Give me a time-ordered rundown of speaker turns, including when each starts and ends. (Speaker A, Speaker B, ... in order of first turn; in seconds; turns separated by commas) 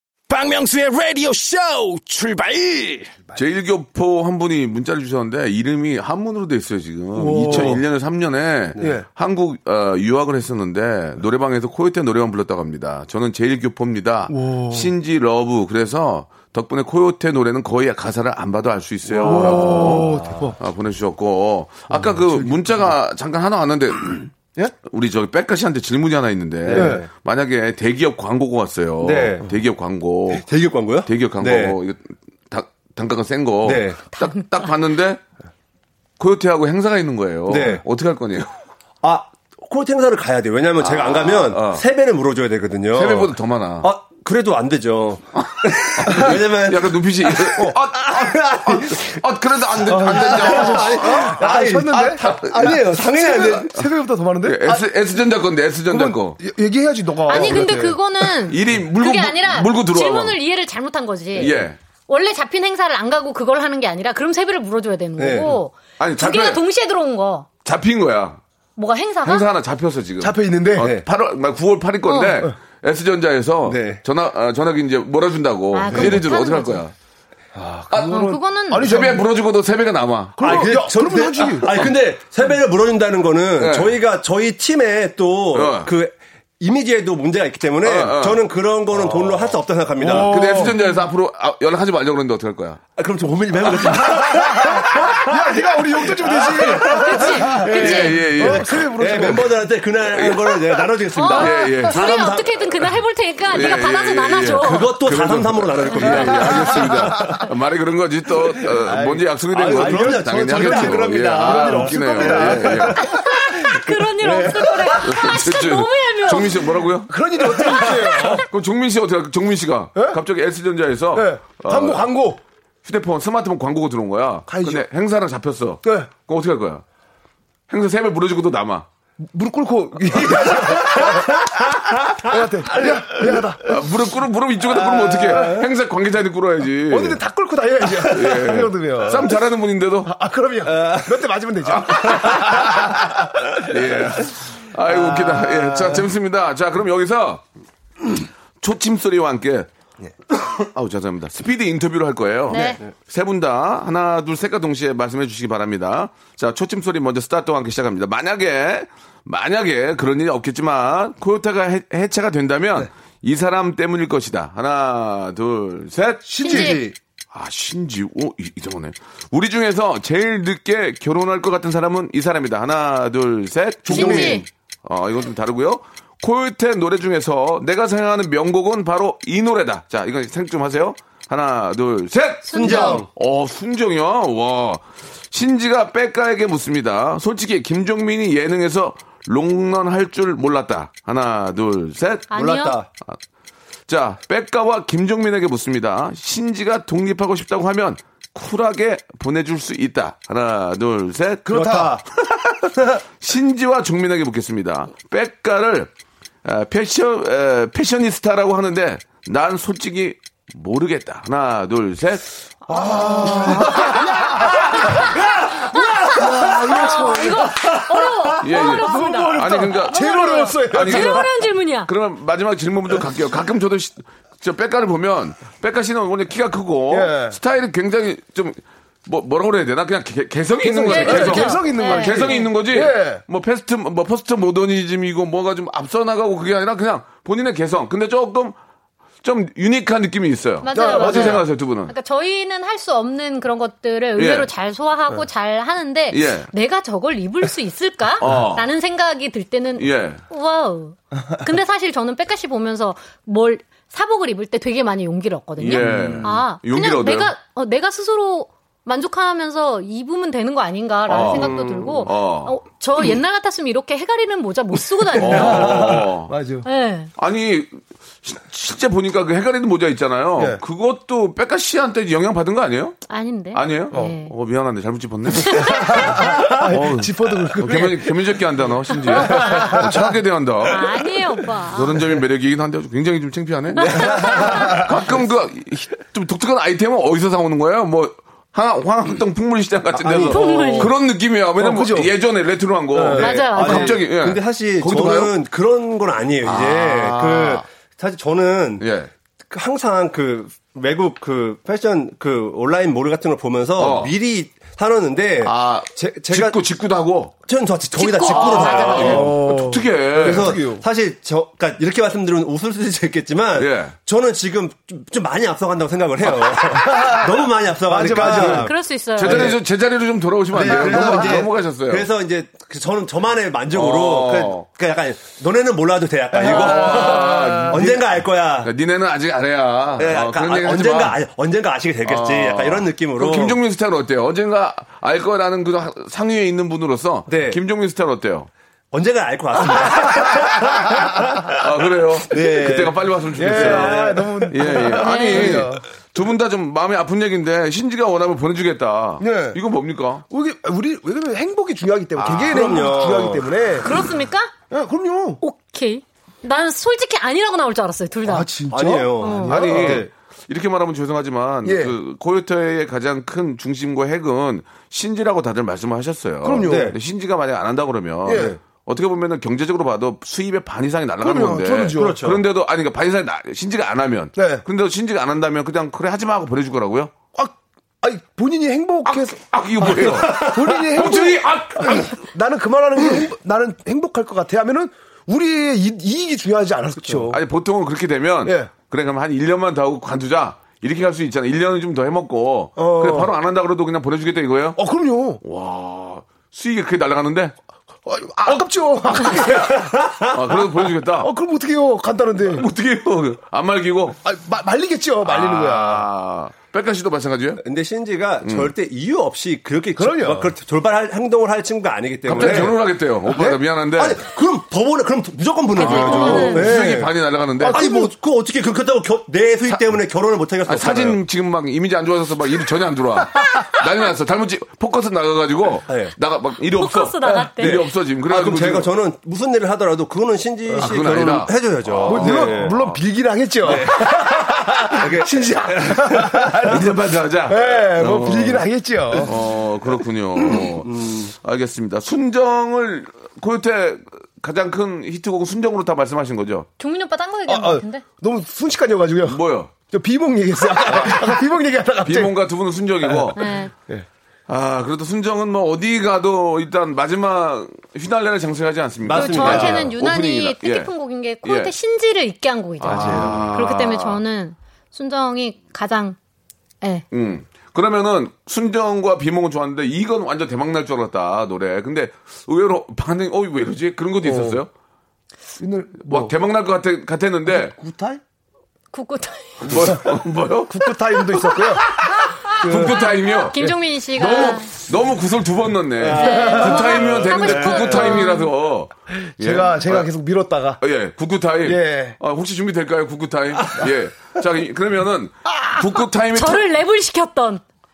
Speaker A: 0.3-3.1, Speaker B: 3.3-24.3, Speaker C: 7.1-7.8, Speaker D: 7.5-7.8, Speaker C: 8.8-9.1, Speaker C: 14.3-14.9, Speaker D: 19.1-20.3, Speaker C: 19.2-20.6, Speaker C: 21.9-22.9, Speaker B: 24.8-30.5, Speaker D: 26.6-27.1, Speaker C: 26.7-27.0, Speaker D: 29.0-29.5, Speaker D: 30.3-31.8, Speaker B: 31.1-35.2, Speaker D: 33.6-34.0, Speaker E: 34.2-34.4, Speaker B: 36.2-38.5, Speaker D: 37.5-37.8, Speaker D: 39.0-49.2, Speaker B: 40.8-41.8, Speaker B: 42.9-43.9, Speaker B: 45.4-52.8, Speaker C: 49.8-54.9, Speaker D: 49.9-53.7, Speaker B: 54.4-56.4, Speaker C: 55.9-58.0, Speaker E: 57.3-61.6, Speaker B: 57.3-57.6, Speaker B: 58.2-60.4, Speaker B: 61.4-61.8, Speaker E: 62.1-67.5, Speaker D: 65.2-65.5, Speaker B: 66.0-66.6, Speaker B: 67.6-68.4, Speaker E: 68.8-69.5, Speaker B: 69.2-76.9, Speaker C: 70.2-70.9, Speaker D: 70.8-71.0, Speaker E: 72.1-72.4, Speaker D: 73.7-74.0, Speaker E: 75.7-76.8, Speaker C: 75.9-76.2, Speaker C: 77.5-79.3, Speaker B: 77.9-80.8, Speaker E: 78.0-79.0, Speaker C: 80.4-81.8, Speaker D: 80.4-90.6, Speaker B: 81.6-81.9, Speaker B: 83.6-84.0, Speaker B: 85.5-85.9, Speaker B: 87.8-88.4, Speaker B: 88.9-89.5, Speaker C: 90.0-90.8, Speaker B: 90.0-92.8, Speaker D: 93.0-95.5, Speaker B: 93.7-94.1, Speaker C: 93.9-99.6, Speaker D: 96.0-102.6, Speaker E: 96.8-98.2, Speaker B: 97.7-99.4, Speaker B: 100.0-102.2, Speaker E: 101.1-104.9, Speaker B: 103.5-113.0, Speaker D: 104.6-107.4, Speaker C: 106.3-107.4, Speaker D: 108.8-115.0, Speaker C: 109.6-113.1, Speaker E: 113.0-116.7, Speaker B: 115.0-117.1, Speaker C: 117.1-118.5, Speaker E: 117.8-118.4, Speaker B: 118.5-122.0, Speaker C: 121.1-122.4, Speaker B: 122.8-126.8, Speaker C: 124.5-124.8, Speaker C: 125.8-126.1, Speaker B: 127.7-128.8, Speaker C: 129.2-131.5, Speaker C: 132.2-133.8, Speaker B: 133.6-137.2, Speaker D: 135.1-135.5, Speaker C: 135.3-135.6, Speaker C: 136.9-139.4, Speaker B: 138.0-140.1, Speaker C: 140.0-143.4, Speaker D: 140.7-141.1, Speaker B: 141.7-143.0, Speaker B: 143.6-147.4, Speaker B: 148.6-149.7, Speaker B: 150.6-166.8, Speaker E: 152.5-152.8, Speaker C: 166.2-166.9, Speaker E: 166.4-166.8, Speaker B: 167.3-192.3, Speaker D: 173.9-174.4, Speaker E: 173.9-174.4, Speaker E: 182.4-183.0, Speaker D: 182.5-183.1, Speaker E: 192.3-192.8, Speaker D: 192.3-192.9, Speaker B: 193.9-202.0, Speaker C: 201.5-202.0, Speaker D: 201.5-202.0, Speaker B: 203.2-205.9, Speaker B: 206.4-215.0, Speaker C: 212.7-221.3, Speaker E: 212.8-221.9, Speaker B: 218.4-238.6, Speaker C: 226.9-227.4, Speaker C: 230.6-233.2, Speaker E: 230.9-232.5, Speaker B: 239.2-241.9, Speaker E: 240.6-265.9, Speaker C: 240.7-241.4, Speaker B: 244.2-244.5, Speaker B: 246.1-246.5, Speaker B: 248.2-248.7, Speaker B: 249.8-250.2, Speaker B: 255.6-257.3, Speaker C: 255.7-256.2, Speaker B: 261.1-262.5, Speaker D: 261.4-261.8, Speaker B: 265.2-266.3, Speaker C: 265.2-266.7, Speaker E: 266.6-267.1, Speaker B: 267.2-273.0, Speaker E: 273.1-274.3, Speaker B: 273.5-281.1, Speaker E: 275.4-276.3, Speaker C: 275.6-278.2, Speaker C: 279.1-280.1, Speaker E: 279.1-279.8, Speaker E: 280.6-282.0, Speaker B: 281.7-295.3, Speaker E: 283.7-284.8, Speaker C: 283.9-285.0, Speaker D: 290.0-290.9, Speaker E: 290.2-290.9, Speaker C: 291.6-292.1, Speaker C: 292.9-293.3, Speaker D: 293.1-298.9, Speaker E: 293.2-294.0, Speaker B: 296.4-297.6, Speaker B: 298.8-299.1, Speaker D: 299.5-306.6, Speaker B: 303.8-304.1, Speaker B: 305.4-307.3, Speaker D: 307.5-309.4, Speaker E: 307.9-309.2, Speaker B: 308.2-310.6, Speaker C: 308.8-310.8, Speaker D: 310.1-319.6, Speaker B: 313.6-313.9, Speaker C: 316.7-318.7, Speaker E: 318.2-319.4, Speaker B: 319.1-322.1, Speaker C: 320.5-321.5, Speaker D: 320.5-328.7, Speaker B: 323.7-324.6, Speaker C: 326.3-327.9, Speaker B: 326.4-328.1, Speaker B: 328.6-331.2, Speaker D: 330.0-333.6, Speaker B: 332.0-338.5, Speaker D: 337.3-337.6, Speaker D: 338.9-341.6, Speaker B: 341.5-350.2, Speaker D: 342.3-344.8, Speaker C: 343.4-345.8, Speaker E: 345.0-345.6, Speaker C: 349.2-349.6, Speaker C: 350.3-353.9, Speaker B: 352.2-352.6, Speaker D: 352.2-353.5, Speaker E: 353.8-354.5, Speaker C: 354.7-355.4, Speaker E: 355.4-358.5, Speaker C: 358.2-360.1, Speaker D: 358.7-360.1, Speaker E: 359.2-359.5, Speaker B: 359.5-377.1, Speaker C: 361.6-361.9, Speaker C: 366.4-366.9, Speaker D: 366.6-366.9, Speaker C: 368.2-368.6, Speaker D: 368.3-368.6, Speaker C: 371.2-372.3, Speaker D: 371.9-372.4, Speaker C: 374.4-374.6, Speaker C: 377.3-387.4, Speaker B: 379.1-382.2, Speaker B: 387.3-394.8, Speaker C: 388.4-388.7, Speaker C: 392.8-393.3, Speaker C: 394.8-395.4, Speaker B: 395.4-397.5, Speaker C: 398.1-400.1, Speaker B: 399.1-399.7, Speaker D: 399.6-400.3, Speaker B: 400.2-401.3, Speaker C: 401.2-402.7, Speaker B: 402.5-404.2, Speaker C: 404.2-406.1, Speaker B: 405.2-407.6, Speaker D: 407.6-412.8, Speaker B: 408.4-408.7, Speaker C: 410.0-410.5, Speaker B: 412.2-414.2, Speaker C: 412.3-412.7, Speaker D: 413.3-417.1, Speaker E: 415.8-416.7, Speaker B: 415.8-417.9, Speaker C: 415.9-417.0, Speaker C: 417.6-418.1, Speaker D: 417.6-421.2, Speaker B: 420.6-428.9, Speaker D: 425.9-426.1, Speaker E: 426.7-427.8, Speaker D: 427.6-432.8, Speaker C: 430.7-430.9, Speaker B: 430.8-432.9, Speaker C: 432.0-436.9, Speaker D: 433.6-436.7, Speaker B: 436.6-438.6, Speaker C: 437.4-439.3, Speaker B: 439.2-446.7, Speaker D: 440.4-441.3, Speaker E: 446.8-448.0, Speaker C: 447.4-452.4, Speaker B: 449.2-449.7, Speaker B: 452.0-453.5, Speaker C: 453.0-453.3, Speaker E: 453.4-453.7, Speaker B: 454.5-460.9, Speaker D: 459.0-459.9, Speaker E: 459.1-466.2, Speaker B: 461.4-461.7, Speaker B: 462.8-464.2, Speaker C: 462.9-463.4, Speaker B: 467.1-474.7, Speaker C: 474.2-474.6, Speaker C: 475.6-476.3, Speaker B: 476.0-477.7, Speaker C: 477.5-478.2, Speaker E: 478.9-479.8, Speaker B: 479.6-490.1, Speaker C: 479.7-480.0, Speaker C: 480.7-483.7, Speaker E: 482.4-484.7, Speaker D: 486.0-488.2, Speaker E: 486.1-488.5, Speaker C: 486.2-486.9, Speaker C: 489.3-490.8, Speaker B: 490.8-496.6, Speaker C: 491.6-492.2, Speaker E: 496.3-497.6